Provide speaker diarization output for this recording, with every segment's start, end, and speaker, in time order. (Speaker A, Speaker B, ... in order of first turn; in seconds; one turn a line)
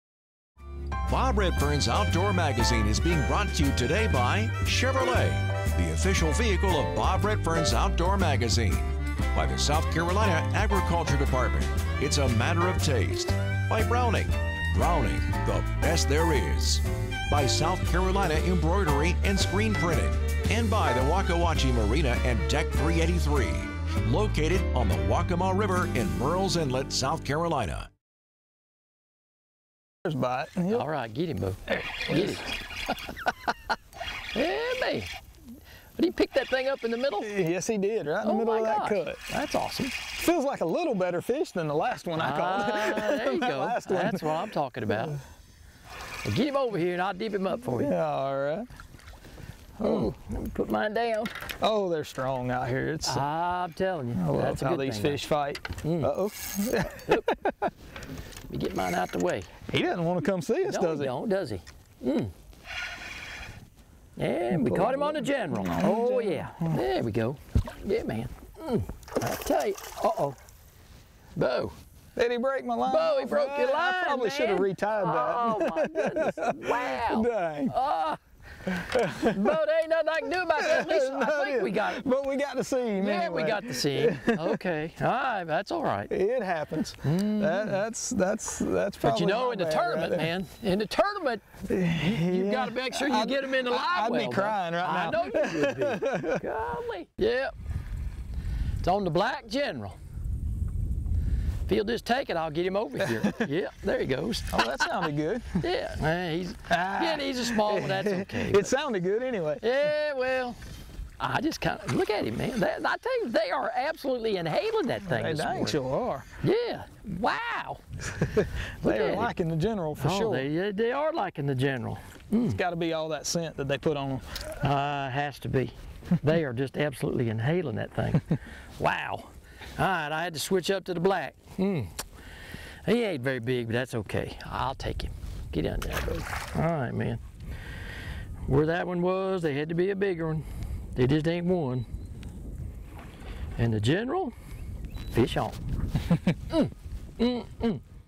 Speaker A: 1.1-27.9
Speaker B: 30.1-30.9
Speaker C: 30.7-32.5
Speaker B: 31.7-32.5
Speaker C: 34.3-35.1
Speaker C: 36.0-37.3
Speaker B: 37.2-39.2
Speaker C: 38.2-40.0
Speaker B: 40.2-44.4
Speaker C: 42.2-45.2
Speaker C: 46.2-47.9
Speaker B: 47.7-48.7
Speaker B: 49.8-50.1
Speaker C: 49.8-51.3
Speaker B: 51.6-53.2
Speaker C: 53.1-55.2
Speaker B: 54.1-57.7
Speaker C: 55.8-56.1
Speaker C: 58.5-59.5
Speaker B: 59.7-61.1
Speaker C: 60.6-62.3
Speaker C: 64.2-70.4
Speaker B: 64.5-66.8
Speaker C: 71.4-71.8
Speaker B: 72.2-77.8
Speaker C: 72.9-78.2
Speaker B: 78.7-79.6
Speaker C: 79.2-82.0
Speaker B: 80.6-84.6
Speaker C: 83.0-86.1
Speaker B: 86.1-90.3
Speaker C: 87.0-87.8
Speaker C: 89.0-91.5
Speaker B: 91.7-96.4
Speaker C: 92.0-97.5
Speaker C: 98.8-100.0
Speaker C: 101.7-108.7
Speaker B: 104.5-105.7
Speaker B: 106.7-109.7
Speaker C: 109.6-110.6
Speaker C: 111.2-115.8
Speaker B: 115.0-116.3
Speaker C: 116.4-117.8
Speaker B: 118.2-120.5
Speaker C: 118.8-119.3
Speaker C: 120.0-122.6
Speaker B: 122.5-124.2
Speaker C: 124.6-128.3
Speaker C: 128.8-131.9
Speaker C: 132.8-137.2
Speaker C: 138.5-141.9
Speaker C: 143.6-144.3
Speaker C: 145.1-145.6
Speaker C: 146.5-147.8